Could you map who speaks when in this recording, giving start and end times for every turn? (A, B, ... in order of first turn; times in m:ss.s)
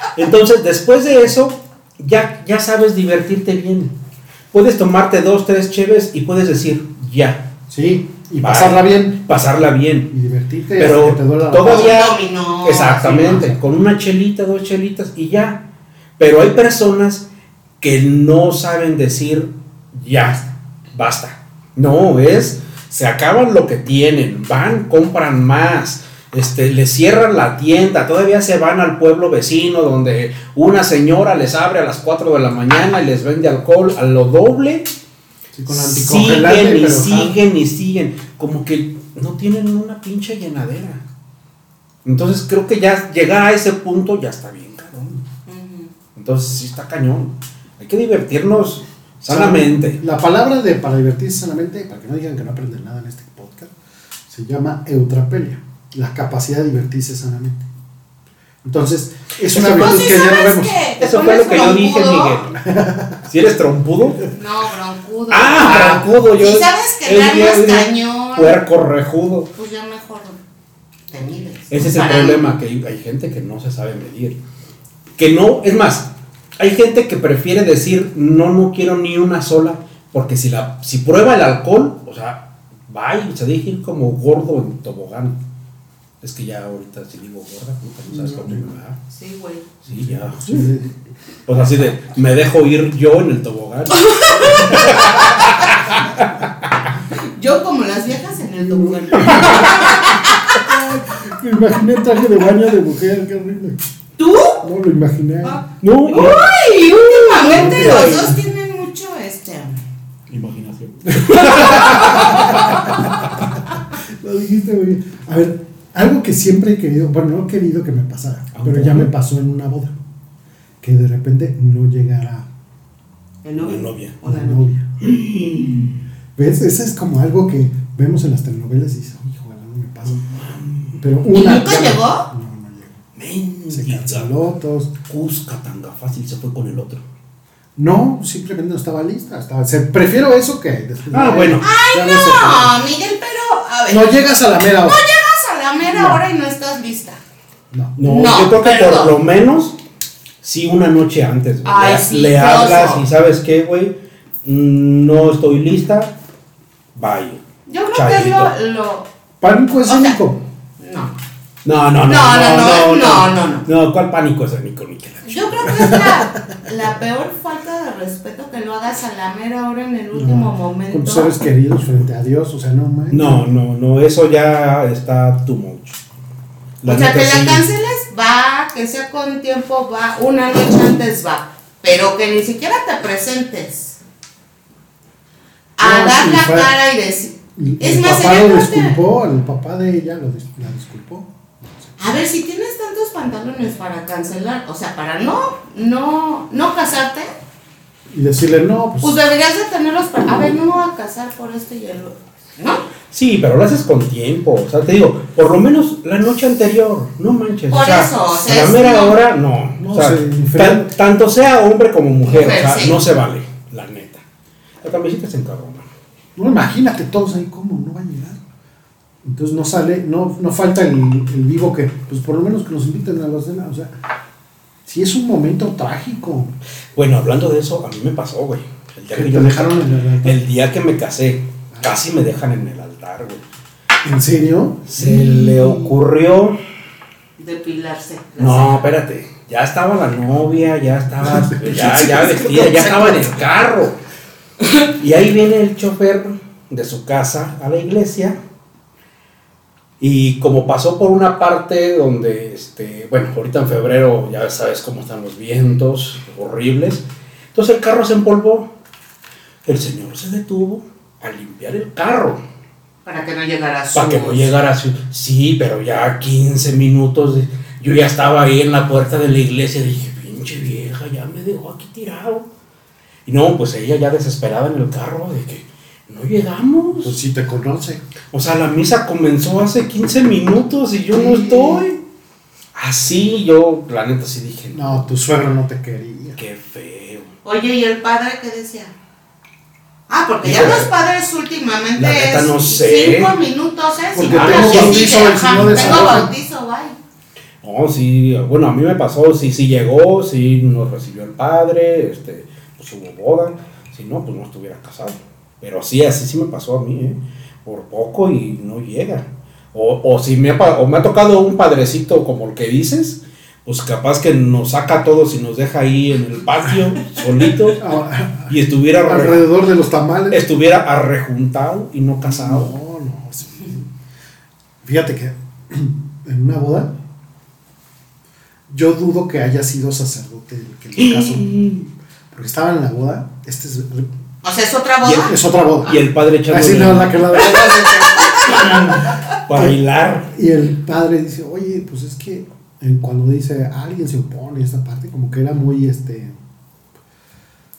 0:00.1-0:03.9 A
0:04.5-0:07.5 A
0:07.7-0:09.2 B
0:08.4-0:10.1 A
0:10.1-0:12.0 B
0:10.8-0:15.6 A
0:11.6-0:13.5 C
0:16.2-0:17.2 A
0:17.8-0:34.9 A
0:35.5-0:37.4 B
0:35.7-0:41.0 A
0:42.0-0:45.2 A
0:45.4-0:45.9 C
0:46.2-0:50.0 A
0:49.2-0:53.7 B
0:54.3-0:57.7 B
0:58.6-1:00.8 B
0:59.5-1:00.1 A
0:59.6-1:02.4 C
1:01.0-1:02.6 A
1:02.6-1:03.2 B
1:03.2-1:04.3 A
1:04.3-1:08.6 C
1:05.3-1:09.5 A
1:09.5-1:10.4 C
1:11.1-1:12.4 C
1:11.7-1:14.4 A
1:15.2-1:25.4 A
1:26.2-1:29.0 A
1:28.1-1:28.7 B
1:29.1-1:29.7 C
1:29.8-1:30.7 A
1:29.9-1:30.9 B
1:31.5-1:36.7 A
1:33.9-1:35.7 C
1:34.7-1:35.1 B
1:37.1-1:40.6 C
1:38.6-1:43.8 B
1:39.2-1:39.9 A
1:44.2-1:44.6 C
1:44.6-1:45.6 B
1:45.4-1:49.8 C
1:45.8-1:48.4 A
1:47.5-1:48.4 B
1:50.3-1:53.0 A
1:51.1-1:53.1 B
1:51.4-1:52.9 C
1:54.2-2:00.0 B
1:58.5-1:59.1 A
2:00.8-2:02.5 B
2:03.4-2:04.6 C
2:03.6-2:04.2 A
2:04.2-2:04.9 B
2:05.0-2:05.9 A
2:06.4-2:10.2 B
2:10.1-2:11.0 A
2:10.9-2:13.0 B
2:11.3-2:12.3 C
2:13.2-2:14.3 A
2:13.7-2:14.9 B
2:15.1-2:17.0 A
2:17.8-2:22.7 B
2:21.1-2:21.7 A
2:21.6-2:24.2 C
2:23.9-2:25.0 B
2:24.7-2:27.2 C
2:25.8-2:26.2 B
2:28.0-2:29.8 A
2:28.0-2:29.1 C
2:30.4-2:36.1 A
2:31.6-2:33.0 C
2:36.9-2:37.4 A
2:37.7-2:39.1 C
2:37.9-2:38.5 A
2:39.4-2:40.4 B
2:39.8-2:40.2 C
2:40.8-2:41.1 C
2:41.6-2:46.0 A
2:42.0-2:43.6 C
2:45.2-2:51.3 C
2:45.8-2:46.1 B
2:50.1-2:53.5 B
2:53.1-2:56.0 A
2:56.8-2:57.6 A
2:56.8-3:04.0 C
3:05.8-3:09.0 C
3:05.8-3:06.7 B
3:07.6-3:11.9 B
3:12.0-3:17.3 C
3:18.1-3:19.2 B
3:19.0-3:22.8 C
3:23.1-3:34.2 A
3:27.7-3:29.2 C
3:29.8-3:30.9 B
3:32.2-3:33.0 C
3:34.8-3:35.8 A
3:36.4-3:38.4 B
3:39.2-3:43.9 B
3:44.8-3:46.5 B
3:46.9-3:53.4 A
3:49.1-3:50.4 B
3:54.0-3:56.0 B
3:54.9-3:56.6 A
3:57.4-3:58.9 C
3:58.4-4:04.0 A
4:01.2-4:03.4 B
4:04.8-4:08.4 A
4:10.0-4:18.7 A
4:19.6-4:22.4 A
4:23.0-4:24.5 C
4:23.9-4:32.5 A
4:33.2-4:37.2 A
4:37.0-4:38.0 B
4:38.3-4:42.0 A
4:41.1-4:41.9 B
4:42.7-4:45.0 A
4:44.7-4:46.4 B
4:46.4-4:47.3 A
4:47.4-4:48.9 C
4:50.1-4:57.0 C
4:50.4-4:50.9 A
4:52.0-4:53.4 A
4:54.1-4:56.3 B
4:54.2-4:56.1 A
4:57.6-5:17.8 A
5:17.8-5:20.4 B
5:18.5-5:19.5 A
5:20.3-5:22.7 A
5:22.2-5:23.9 B
5:24.8-5:26.9 B
5:28.7-5:31.6 B
5:31.0-5:31.9 A
5:32.3-5:34.1 B
5:34.4-5:35.3 C
5:35.0-5:35.3 A
5:35.2-5:39.8 B
5:35.8-5:40.3 A
5:37.5-5:38.8 C
5:40.3-5:46.4 B